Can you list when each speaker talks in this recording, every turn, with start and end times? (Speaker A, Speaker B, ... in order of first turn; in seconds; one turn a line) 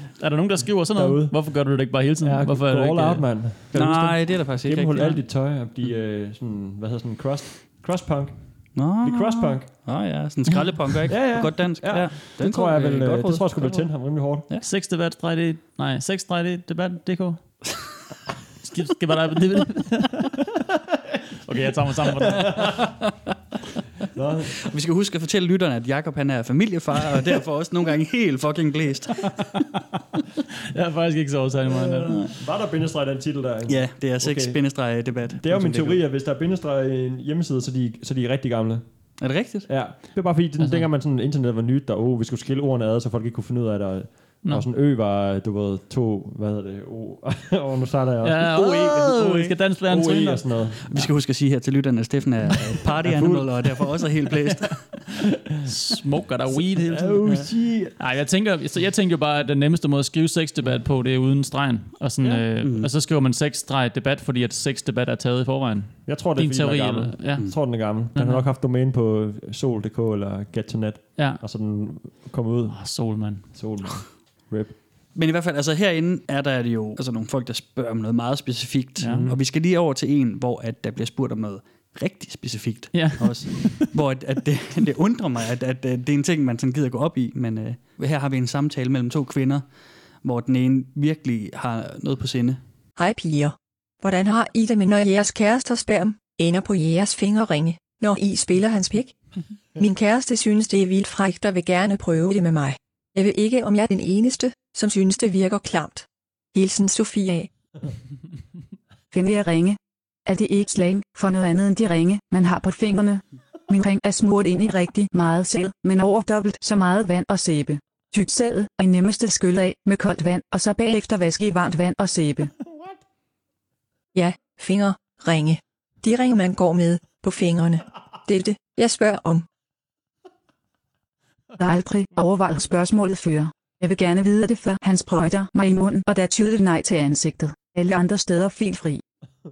Speaker A: 0.2-3.4
Speaker B: 0.9-9.7
Speaker C: 3.7-5.2
Speaker C: 8.8-13.9
Speaker B: 11.1-14.5
Speaker A: 14.6-17.4
Speaker A: 18.6-20.4
Speaker A: 21.5-22.6
Speaker B: 22.2-22.9
Speaker B: 24.1-24.6
Speaker C: 24.6-29.4
Speaker A: 30.7-32.3
Speaker B: 31.7-38.9
Speaker C: 33.7-36.0
Speaker C: 39.2-39.7
Speaker B: 39.7-48.4
Speaker A: 40.6-40.9
Speaker A: 48.2-51.1
Speaker C: 48.5-49.6
Speaker B: 49.9-50.8
Speaker C: 50.9-55.0
Speaker B: 53.0-53.5
Speaker A: 55.7-57.5
Speaker B: 56.5-58.0
Speaker A: 58.0-68.5
Speaker C: 62.6-62.9
Speaker B: 66.0-74.8
Speaker A: 71.2-71.4
Speaker A: 72.7-73.5
Speaker C: 75.1-89.7
Speaker A: 79.0-79.3
Speaker B: 79.0-79.4
Speaker A: 82.9-83.9
Speaker C: 90.2-92.6
Speaker D: 93.0-99.2
Speaker D: 99.8-107.5
Speaker E: 109.1-122.5
Speaker D: 124.2-129.5
Speaker E: 131.6-139.0